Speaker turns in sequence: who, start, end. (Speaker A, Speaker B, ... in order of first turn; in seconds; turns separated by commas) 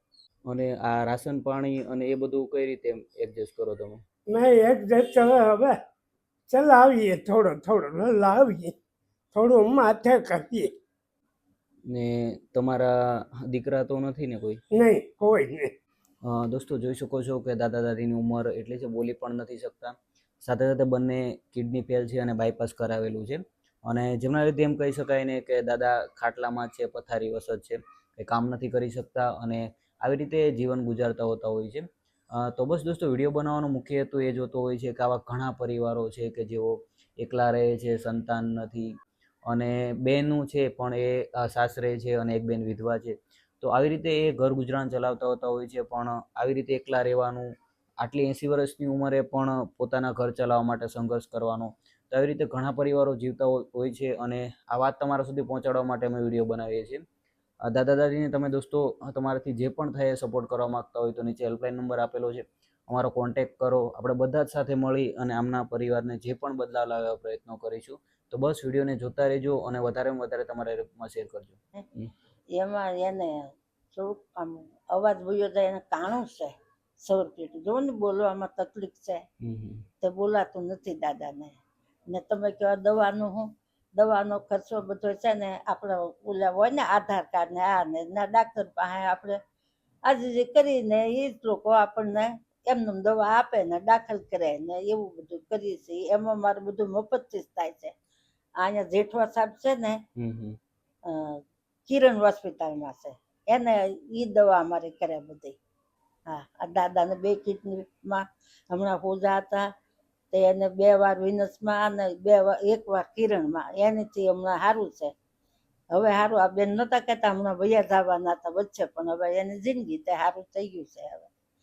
Speaker A: 0.5-4.0, Speaker B: 4.3-5.8, Speaker B: 6.5-8.8, Speaker B: 9.3-10.7, Speaker A: 11.9-14.6, Speaker B: 14.8-15.7, Speaker A: 16.2-38.9, Speaker A: 39.5-47.5, Speaker A: 48.0-57.0, Speaker A: 57.7-72.1, Speaker C: 72.5-79.2, Speaker A: 79.4-79.8, Speaker C: 80.0-81.6, Speaker C: 82.1-89.4, Speaker C: 90.1-97.9, Speaker C: 98.6-100.0, Speaker A: 100.2-100.6, Speaker C: 101.1-105.6, Speaker C: 106.3-109.7, Speaker C: 110.3-115.1, Speaker C: 115.9-121.3